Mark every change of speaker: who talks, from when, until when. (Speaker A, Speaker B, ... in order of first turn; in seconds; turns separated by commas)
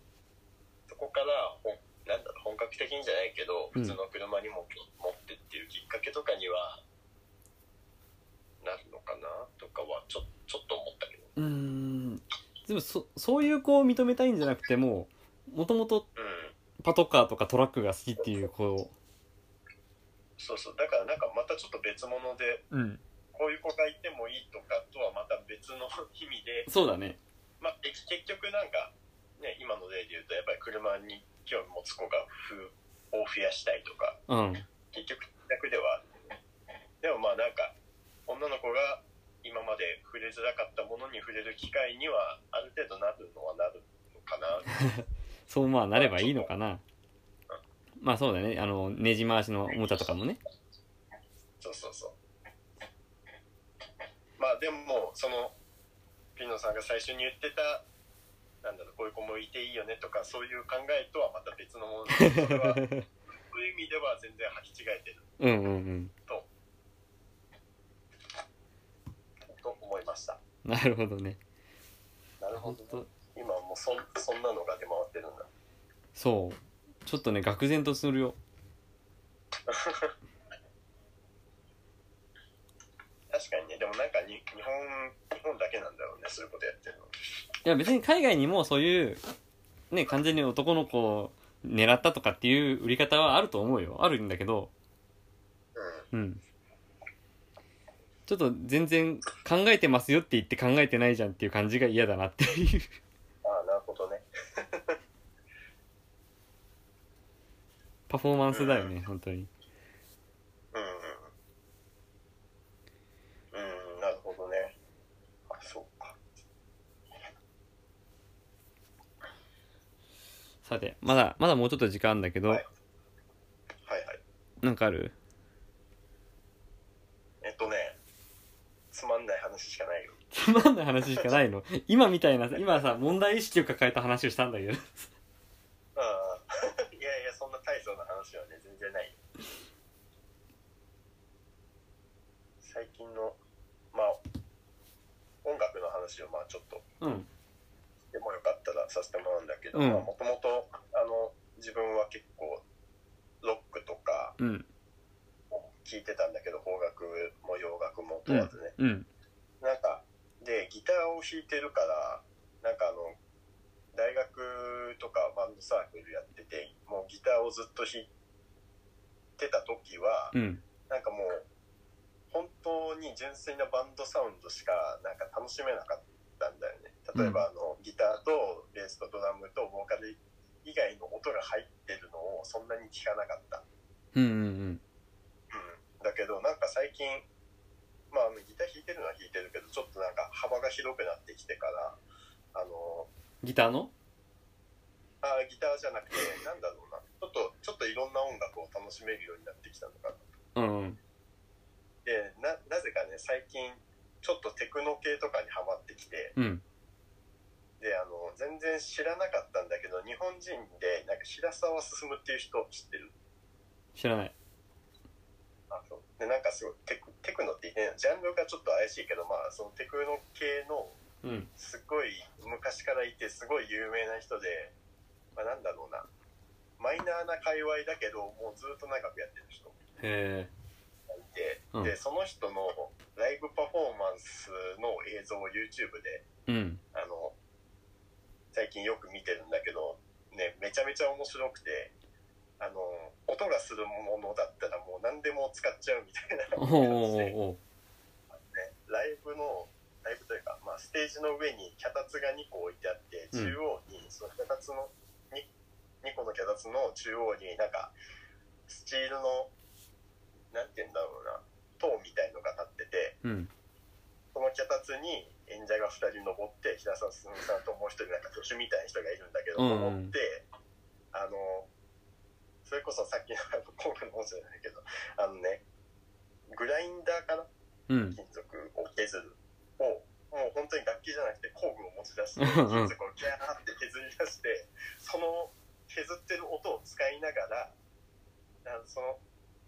Speaker A: 0.9-6.8, Speaker A: 8.6-11.3, Speaker B: 11.4-16.1, Speaker A: 16.2-16.6, Speaker B: 16.8-18.9, Speaker A: 20.4-22.6, Speaker B: 22.7-23.0, Speaker A: 23.3-26.7, Speaker B: 26.7-27.2, Speaker A: 27.6-34.2, Speaker B: 34.3-34.7, Speaker A: 34.9-36.0, Speaker A: 37.0-37.8, Speaker A: 38.3-44.8, Speaker B: 44.9-46.8, Speaker A: 46.0-46.5, Speaker B: 48.0-50.4, Speaker A: 51.6-52.2, Speaker A: 54.4-55.6, Speaker A: 56.4-57.9, Speaker A: 58.6-62.9, Speaker B: 62.2-63.1, Speaker A: 63.5-65.2, Speaker B: 65.4-66.1, Speaker A: 69.5-70.4, Speaker B: 70.7-71.4, Speaker A: 72.4-75.5, Speaker B: 72.6-73.1, Speaker B: 76.2-78.4, Speaker A: 79.7-80.1, Speaker A: 83.3-87.1, Speaker B: 87.7-89.2, Speaker B: 89.9-94.7, Speaker A: 95.8-96.0, Speaker B: 96.1-96.4, Speaker B: 98.3-102.9, Speaker A: 103.4-105.0, Speaker B: 108.1-109.5, Speaker A: 108.5-108.9, Speaker A: 110.7-111.3, Speaker A: 113.5-114.8, Speaker A: 115.5-116.2, Speaker B: 120.7-122.6, Speaker A: 123.9-124.2, Speaker B: 124.6-125.1, Speaker A: 127.4-128.0, Speaker A: 128.9-130.2, Speaker B: 130.3-135.1, Speaker A: 136.0-139.2, Speaker A: 142.6-143.4, Speaker A: 143.9-144.2, Speaker A: 145.4-146.8, Speaker B: 147.0-147.3, Speaker A: 148.1-152.6, Speaker B: 149.7-150.1, Speaker A: 153.4-154.4, Speaker B: 154.4-154.7, Speaker A: 155.8-158.8, Speaker B: 158.3-159.1, Speaker A: 159.6-163.2, Speaker A: 163.9-168.1, Speaker A: 169.4-170.4, Speaker B: 170.3-170.6, Speaker A: 170.9-171.4, Speaker A: 172.3-183.6, Speaker B: 177.2-177.4, Speaker B: 184.2-184.8, Speaker A: 185.5-187.3, Speaker A: 188.1-192.0, Speaker A: 192.6-193.1, Speaker B: 193.4-193.9, Speaker A: 195.2-200.2, Speaker B: 200.6-201.0, Speaker A: 202.1-206.3, Speaker B: 206.4-206.6, Speaker A: 207.8-213.1, Speaker B: 213.9-214.3, Speaker A: 215.7-221.0, Speaker B: 221.2-221.5, Speaker A: 221.6-224.8, Speaker A: 225.3-226.1, Speaker A: 226.8-229.8, Speaker B: 230.0-230.5, Speaker A: 231.1-236.2, Speaker B: 236.5-236.8, Speaker A: 236.9-237.4, Speaker A: 238.5-241.9, Speaker A: 242.6-247.3, Speaker B: 246.6-247.6, Speaker A: 248.4-255.5, Speaker A: 256.0-257.9, Speaker A: 258.7-259.5, Speaker A: 260.5-263.2, Speaker B: 263.2-263.5, Speaker A: 264.3-270.4, Speaker B: 269.6-270.1, Speaker A: 271.1-271.7, Speaker A: 272.6-275.6, Speaker A: 276.5-277.5, Speaker B: 277.9-278.2, Speaker A: 278.1-287.7, Speaker B: 282.4-282.9, Speaker A: 288.6-289.2